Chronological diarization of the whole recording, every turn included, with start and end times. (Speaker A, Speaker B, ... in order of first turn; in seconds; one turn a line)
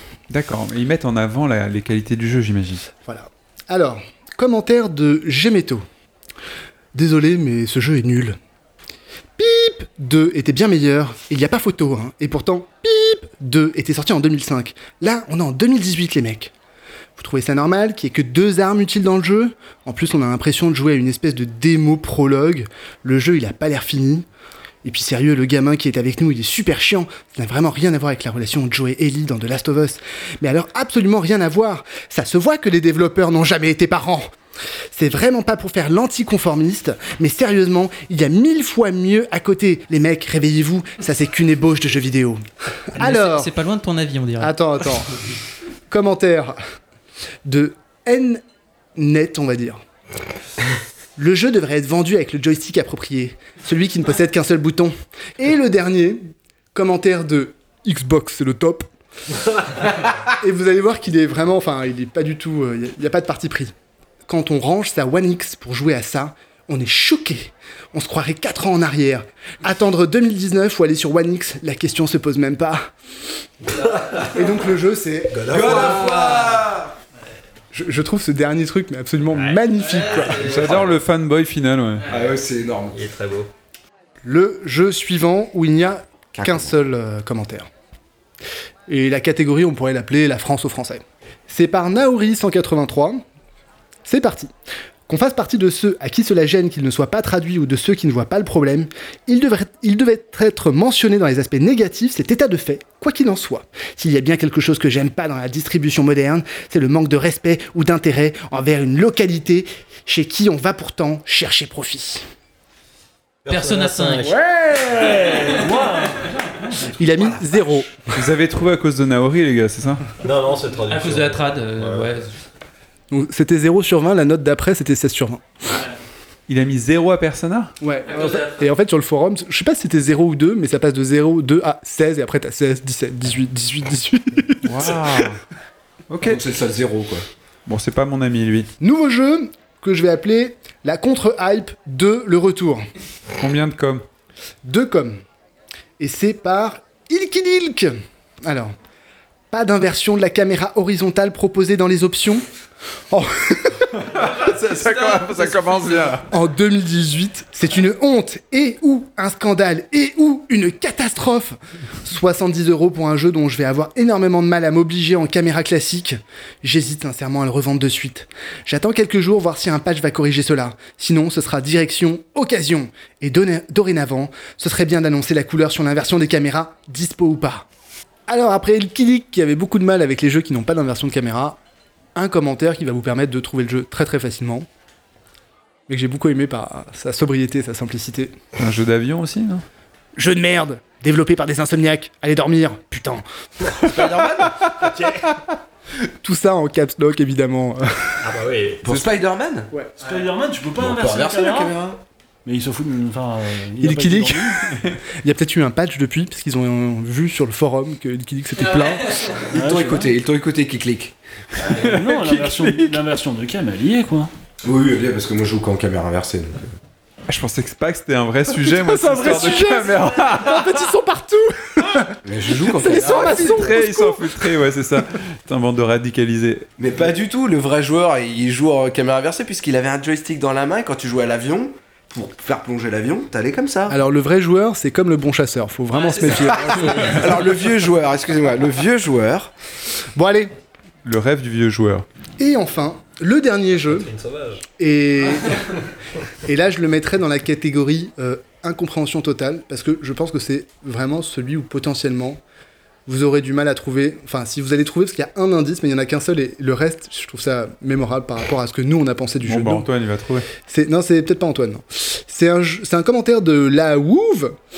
Speaker A: 0.3-2.9
Speaker B: 3.0-5.8
Speaker B: 6.9-8.4
Speaker B: 9.4-16.5
Speaker B: 17.2-24.2
Speaker B: 24.8-34.3
Speaker B: 34.9-43.5
Speaker C: 43.0-44.5
Speaker B: 44.4-45.2
Speaker B: 45.9-46.6
Speaker B: 47.4-48.4
Speaker B: 49.0-49.8
Speaker B: 51.2-56.2
Speaker B: 56.7-58.9
Speaker B: 60.2-63.7
Speaker B: 64.3-72.9
Speaker B: 74.1-76.1
Speaker D: 75.3-76.2
Speaker E: 75.5-76.9
Speaker B: 77.7-80.7
Speaker D: 79.3-80.9
Speaker A: 80.4-82.1
Speaker E: 82.0-83.0
Speaker D: 82.9-83.5
Speaker B: 84.2-87.7
Speaker E: 86.3-86.8
Speaker B: 88.9-93.2
Speaker B: 94.0-94.5
Speaker B: 95.1-112.2
Speaker D: 113.4-115.9
Speaker C: 113.5-114.3
Speaker B: 114.9-115.2
Speaker F: 115.4-116.7
Speaker B: 117.0-118.1
Speaker A: 118.1-120.0
Speaker D: 120.2-122.1
Speaker C: 120.9-122.3
Speaker B: 123.1-125.8
Speaker A: 126.5-127.7
Speaker B: 127.8-135.3
Speaker A: 134.6-135.4
Speaker A: 136.1-136.4
Speaker E: 136.2-137.2
Speaker A: 137.7-138.7
Speaker B: 138.8-142.9
Speaker A: 143.4-144.0
Speaker B: 144.6-145.2
Speaker B: 146.0-148.7
Speaker B: 149.5-152.5
Speaker B: 153.1-154.1
Speaker A: 154.1-156.3
Speaker B: 156.3-177.7
Speaker B: 178.3-181.6
Speaker B: 182.1-184.7
Speaker B: 185.9-188.3
Speaker A: 188.6-189.6
Speaker B: 190.2-193.2
Speaker D: 193.6-195.3
Speaker B: 196.2-198.3
Speaker D: 198.2-198.9
Speaker E: 198.8-199.7
Speaker B: 199.7-200.0
Speaker F: 200.0-201.8
Speaker E: 200.8-202.0
Speaker F: 202.4-204.7
Speaker B: 203.8-209.4
Speaker E: 209.5-211.1
Speaker F: 209.5-210.1
Speaker A: 211.6-213.0
Speaker F: 211.6-214.3
Speaker E: 214.6-216.8
Speaker A: 217.3-220.9
Speaker B: 218.5-224.7
Speaker E: 222.2-223.7
Speaker A: 222.9-226.7
Speaker E: 226.8-234.0
Speaker B: 233.9-237.6
Speaker E: 236.7-239.5
Speaker B: 240.1-240.5
Speaker A: 241.0-242.1
Speaker B: 242.4-244.1
Speaker D: 243.8-244.6
Speaker B: 244.8-245.8
Speaker B: 246.4-252.4
Speaker B: 253.1-259.9
Speaker A: 259.4-260.5
Speaker B: 260.6-264.6